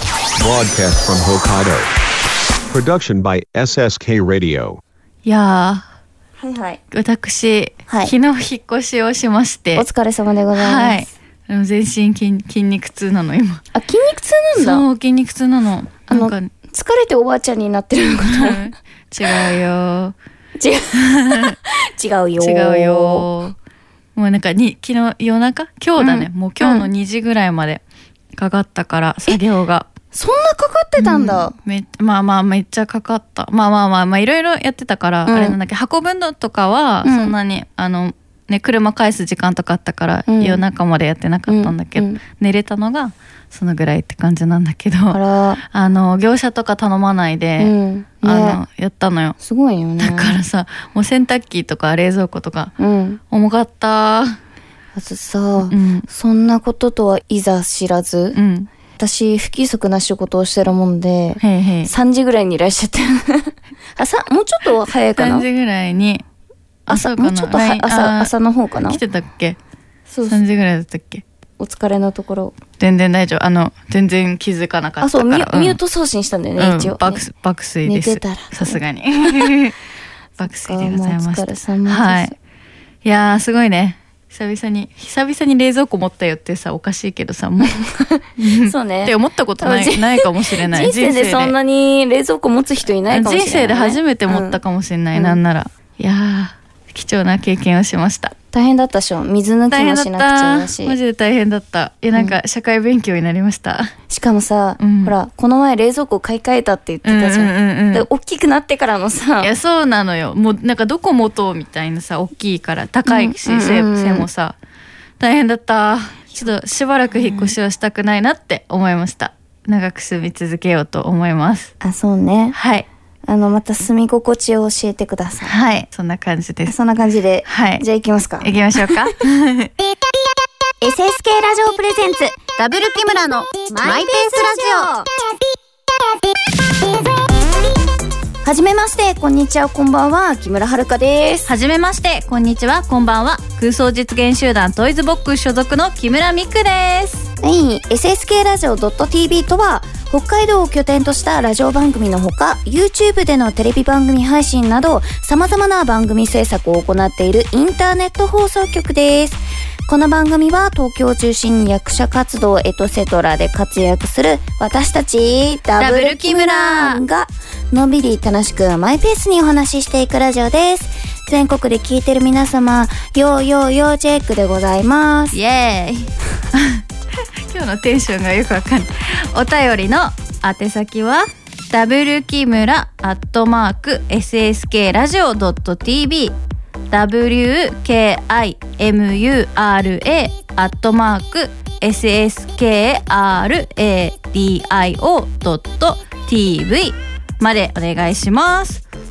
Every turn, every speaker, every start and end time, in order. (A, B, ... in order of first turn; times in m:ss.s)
0:00.4-0:01.9 A
0:02.7-0:04.8 A
0:05.2-0:05.8 B
0:06.4-0:06.8 C
0:06.9-0:09.8 B
0:07.9-0:08.1 C
0:09.8-0:11.1 C
0:10.6-0:13.6 B
0:13.8-0:14.8 C
0:14.6-0:16.5 B
0:16.1-0:18.7 C
0:18.2-0:20.1 B
0:19.2-0:19.5 C
0:20.6-0:23.3 C
0:21.0-0:21.6 B
0:22.4-0:23.6 B
0:24.2-0:27.8 B
0:26.0-0:26.9 C
0:28.4-0:29.9 B
0:30.1-0:31.5 C
0:31.0-0:45.2 B
0:35.3-0:35.6 C
0:37.0-0:37.3 C
0:40.3-0:40.6 C
0:41.5-0:42.2 C
0:45.1-0:45.6 C
0:45.7-0:47.7 B
0:47.6-0:48.6 C
0:48.2-0:49.4 B
0:49.4-0:50.4 C
0:50.0-0:52.7 B
0:52.8-0:53.2 C
0:53.3-0:54.4 B
0:55.0-0:58.4 C
0:55.7-0:56.1 B
0:58.4-0:58.7 B
0:59.0-1:05.4 C
1:01.4-1:01.9 B
1:05.2-1:06.2 B
1:06.9-1:08.3 B
1:06.9-1:09.0 C
1:08.9-1:09.6 B
1:10.1-1:10.4 C
1:10.3-1:11.2 B
1:11.6-1:12.6 C
1:12.8-1:15.8 B
1:15.0-1:17.2 C
1:16.6-1:19.8 B
1:17.8-1:19.6 C
1:20.4-1:22.4 B
1:20.4-1:22.4 C
1:23.0-1:27.8 B
1:27.8-1:34.6 C
1:28.4-1:31.5 B
1:33.1-1:38.3 B
1:38.5-1:41.0 C
1:39.7-1:43.9 B
1:44.1-1:49.5 C
1:44.8-1:45.1 B
1:47.0-1:48.1 B
1:49.4-1:54.6 B
1:53.1-1:54.3 C
1:55.2-2:01.7 B
1:57.2-1:57.5 C
2:01.8-2:05.6 C
2:02.5-2:02.9 B
2:05.5-2:06.7 B
2:06.7-2:09.1 C
2:07.5-2:07.8 B
2:08.4-2:09.7 B
2:10.8-2:12.5 C
2:11.4-2:14.9 D
2:13.6-2:15.1 C
2:18.4-2:21.5 C
2:21.5-2:27.3 B
2:27.4-2:55.4 C
2:45.8-2:47.0 B
2:55.3-2:56.8 B
2:57.5-3:06.4 B
3:06.9-3:18.8 B